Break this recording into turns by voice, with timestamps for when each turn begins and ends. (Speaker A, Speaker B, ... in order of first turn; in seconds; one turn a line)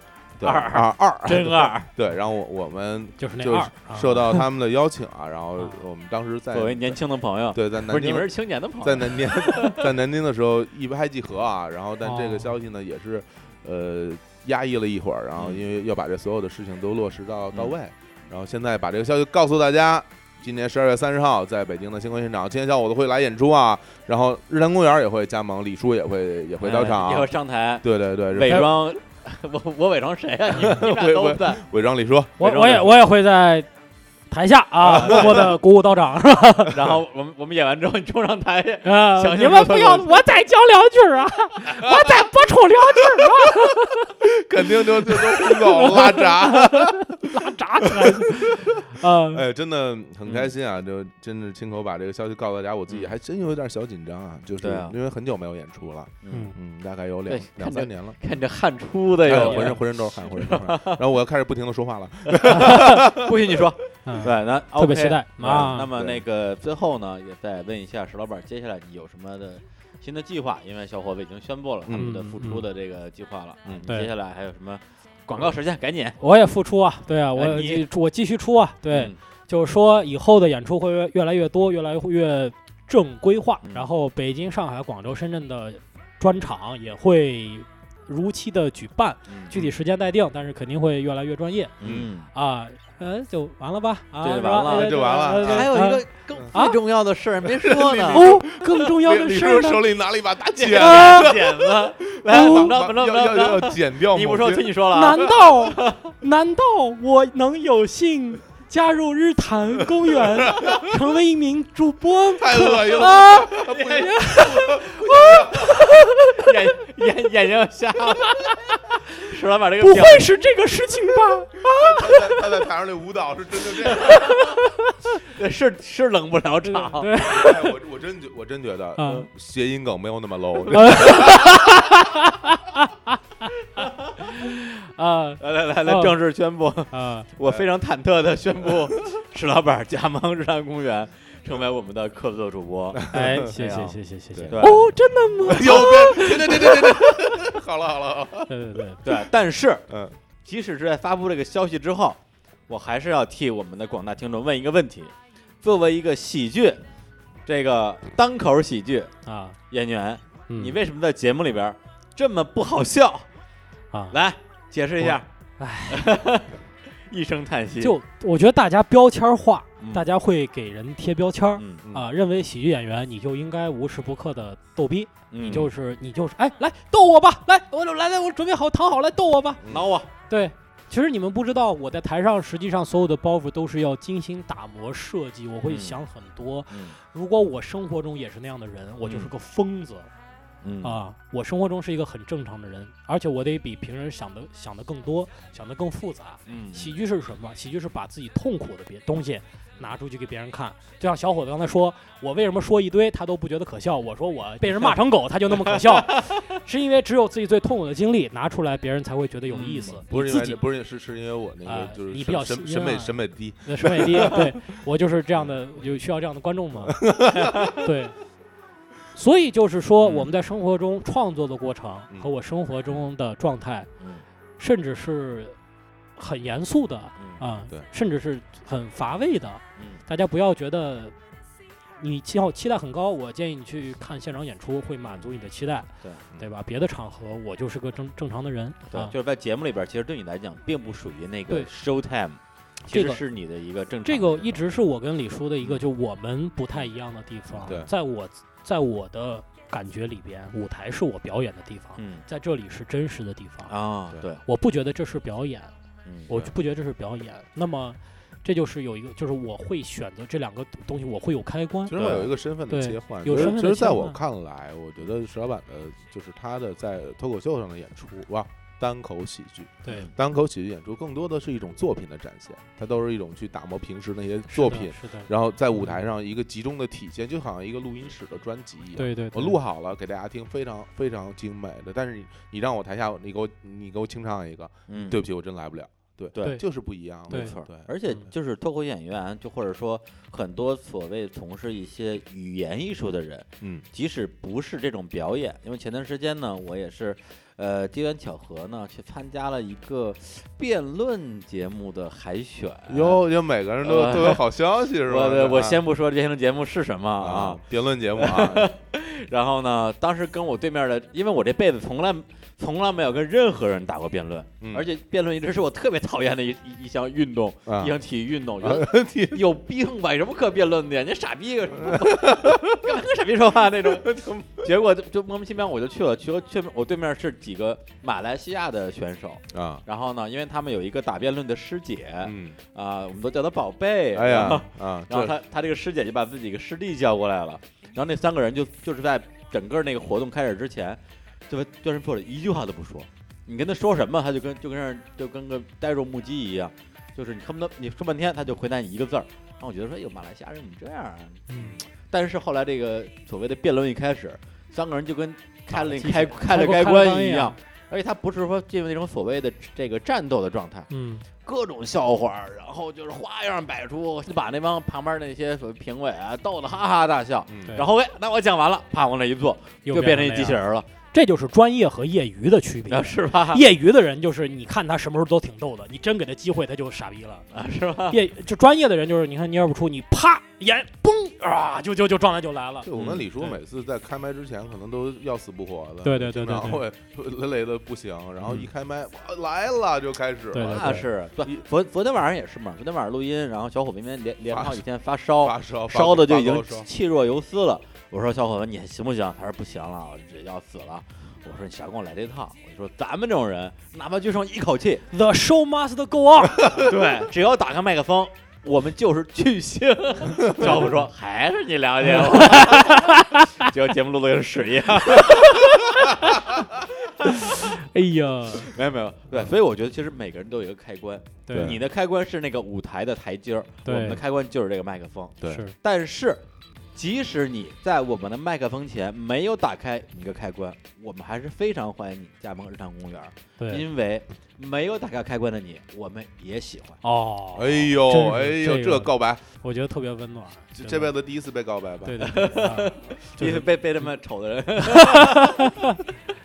Speaker A: 0.4-7.0
Speaker B: 0.4-1.9
Speaker C: 3.2-4.5
Speaker B: 6.5-9.8
Speaker A: 7.5-8.3
Speaker A: 8.8-28.7
Speaker C: 12.0-12.5
Speaker B: 15.4-15.6
Speaker B: 26.6-31.6
Speaker A: 30.6-32.4
Speaker B: 32.4-32.9
Speaker C: 32.4-33.7
Speaker C: 34.3-36.8
Speaker A: 34.8-35.5
Speaker B: 35.0-35.5
Speaker B: 36.7-40.1
Speaker C: 38.8-44.2
Speaker A: 41.8-42.1
Speaker A: 44.2-48.6
Speaker C: 44.9-49.5
Speaker A: 49.3-58.2
Speaker B: 50.2-50.5
Speaker B: 54.6-55.0
Speaker B: 56.2-56.5
Speaker B: 57.3-61.0
Speaker A: 59.2-63.2
Speaker C: 59.3-59.8
Speaker B: 62.3-76.2
Speaker C: 64.0-65.9
Speaker A: 65.4-66.2
Speaker A: 71.8-72.2
Speaker C: 71.9-72.7
Speaker C: 76.2-96.8
Speaker B: 77.3-77.9
Speaker B: 78.9-79.2
Speaker B: 83.6-83.9
Speaker B: 89.3-89.5
Speaker B: 91.8-92.3
Speaker A: 91.8-92.1
Speaker B: 94.2-98.3
Speaker A: 94.7-95.8
Speaker A: 97.5-104.8
Speaker C: 98.1-99.9
Speaker B: 100.5-106.0
Speaker C: 100.7-101.4
Speaker C: 102.3-102.8
Speaker C: 104.9-116.5
Speaker A: 110.2-110.8
Speaker A: 112.3-115.8
Speaker B: 113.7-114.1
Speaker B: 116.3-118.4
Speaker C: 118.3-118.6
Speaker B: 119.2-120.4
Speaker C: 119.8-122.6
Speaker A: 121.7-124.2
Speaker C: 124.0-124.8
Speaker B: 124.1-124.4
Speaker B: 125.2-127.1
Speaker C: 126.6-127.8
Speaker A: 127.2-131.6
Speaker C: 129.0-129.3
Speaker B: 130.7-131.6
Speaker C: 130.7-133.5
Speaker B: 133.8-134.1
Speaker C: 134.2-136.2
Speaker B: 135.4-144.9
Speaker C: 136.9-137.3
Speaker A: 143.0-143.5
Speaker C: 143.1-147.1
Speaker A: 144.3-144.8
Speaker A: 145.4-149.2
Speaker C: 148.5-149.0
Speaker B: 149.0-149.9
Speaker A: 149.9-150.2
Speaker B: 150.4-156.8
Speaker B: 157.5-159.1
Speaker C: 159.3-159.6
Speaker B: 159.7-163.3
Speaker C: 160.5-160.8
Speaker B: 164.1-165.3
Speaker C: 165.0-166.1
Speaker B: 165.9-166.5
Speaker B: 167.1-168.0
Speaker C: 167.8-179.6
Speaker B: 169.8-170.1
Speaker B: 171.6-171.8
Speaker B: 175.3-175.7
Speaker A: 179.6-179.9
Speaker B: 179.7-180.1
Speaker C: 180.3-190.1
Speaker B: 185.6-186.0
Speaker B: 186.7-187.0
Speaker B: 189.0-189.3
Speaker B: 190.6-191.0
Speaker C: 190.8-210.6
Speaker B: 196.5-196.9
Speaker B: 205.7-206.2
Speaker B: 209.5-210.0
Speaker A: 209.8-214.4
Speaker C: 211.7-217.1
Speaker A: 216.9-217.7
Speaker B: 217.4-217.7
Speaker C: 217.8-218.2
Speaker C: 219.1-223.9
Speaker B: 220.0-220.3
Speaker C: 224.6-225.6
Speaker C: 226.2-231.2
Speaker B: 227.2-227.4
Speaker B: 229.8-230.0
Speaker C: 232.0-239.1
Speaker B: 238.9-244.6
Speaker C: 242.9-243.2
Speaker C: 244.1-253.7
Speaker A: 247.7-247.9
Speaker B: 252.0-252.2
Speaker B: 253.7-254.4
Speaker C: 254.4-255.7
Speaker B: 256.1-256.5
Speaker C: 256.3-264.2
Speaker A: 261.9-287.9
Speaker B: 262.0-262.3
Speaker B: 269.9-270.1
Speaker C: 274.5-275.3
Speaker C: 279.0-279.6
Speaker B: 284.9-285.2
Speaker B: 286.4-286.6
Speaker C: 287.3-287.6
Speaker B: 287.3-303.2
Speaker A: 302.9-305.8
Speaker B: 303.8-304.4
Speaker B: 305.1-307.6
Speaker A: 307.2-308.7
Speaker B: 308.2-360.9
Speaker A: 314.6-314.9
Speaker A: 317.7-317.9
Speaker A: 318.6-319.4
Speaker A: 321.8-322.9
Speaker A: 323.9-324.2
Speaker A: 329.5-329.8
Speaker A: 332.2-332.6
Speaker A: 334.1-335.4
Speaker C: 351.5-351.8
Speaker C: 355.7-357.6
Speaker C: 360.9-361.2
Speaker B: 361.4-370.9
Speaker A: 367.5-367.8
Speaker C: 369.9-370.6
Speaker C: 371.1-377.5
Speaker B: 372.9-373.6
Speaker B: 377.5-378.2
Speaker C: 378.1-383.6
Speaker A: 382.8-391.6
Speaker B: 382.9-383.2
Speaker C: 386.0-386.8
Speaker C: 390.5-391.1
Speaker B: 390.6-405.1
Speaker A: 394.5-394.8
Speaker A: 395.4-396.9
Speaker C: 405.1-406.7
Speaker B: 406.7-416.4
Speaker C: 412.2-413.4
Speaker B: 417.1-417.4
Speaker C: 417.2-418.7
Speaker B: 418.6-426.4
Speaker C: 421.5-421.8
Speaker A: 421.5-421.8
Speaker C: 423.9-424.2
Speaker C: 425.4-425.8
Speaker B: 426.9-437.0
Speaker C: 433.6-433.9
Speaker C: 437.0-441.1
Speaker A: 437.5-439.4
Speaker A: 440.8-442.4
Speaker C: 442.0-443.0
Speaker B: 442.2-446.0
Speaker A: 443.4-443.6
Speaker C: 444.9-445.8